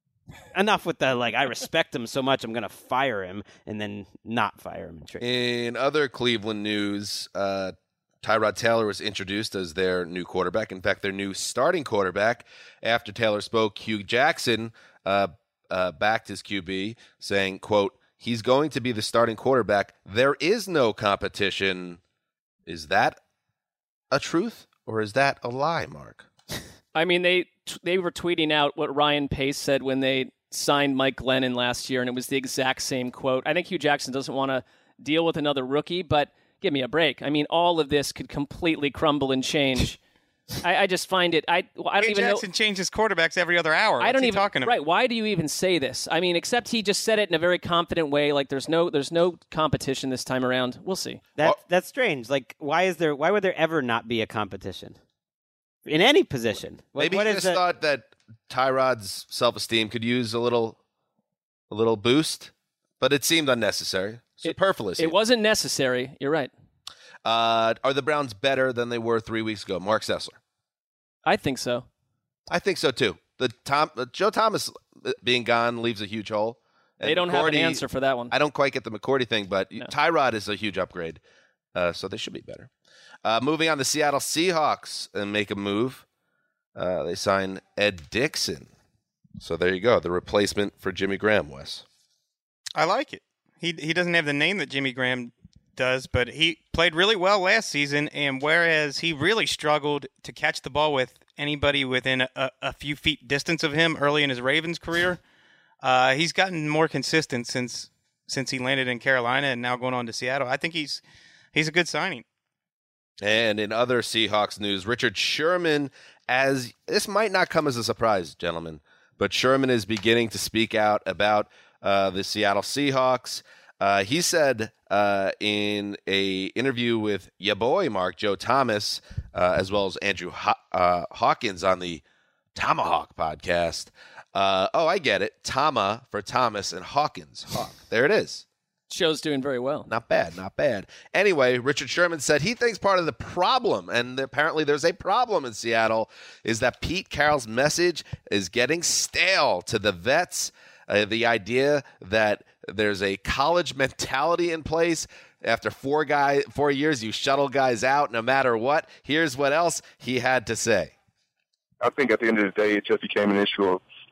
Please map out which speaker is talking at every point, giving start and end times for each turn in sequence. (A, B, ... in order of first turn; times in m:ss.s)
0:00.5-0:05.2 A
0:05.2-0:22.0 B
0:22.7-0:23.2 B
0:24.1-0:26.3 B
0:27.0-0:40.0 C
0:40.6-0:42.4 C
0:42.0-0:44.8 D
0:44.0-0:51.2 C
0:51.4-0:55.0 A
0:55.9-0:57.6 A
0:57.0-1:00.8 B
1:01.7-1:05.2 B
1:04.4-1:06.5 C
1:07.2-1:10.4 B
1:11.2-1:11.9 C
1:12.5-1:21.2 B
1:17.0-1:18.3 C
1:21.8-1:22.7 B
1:23.2-1:26.0 B
1:26.8-1:28.7 B
1:29.4-1:31.8 B
1:32.8-1:45.2 D
1:45.8-1:51.0 D
1:51.5-1:52.2 D
1:53.2-2:12.0 B
2:12.6-2:18.4 B
2:18.9-2:19.9 C
2:19.9-2:40.9 B
2:41.8-2:43.8 E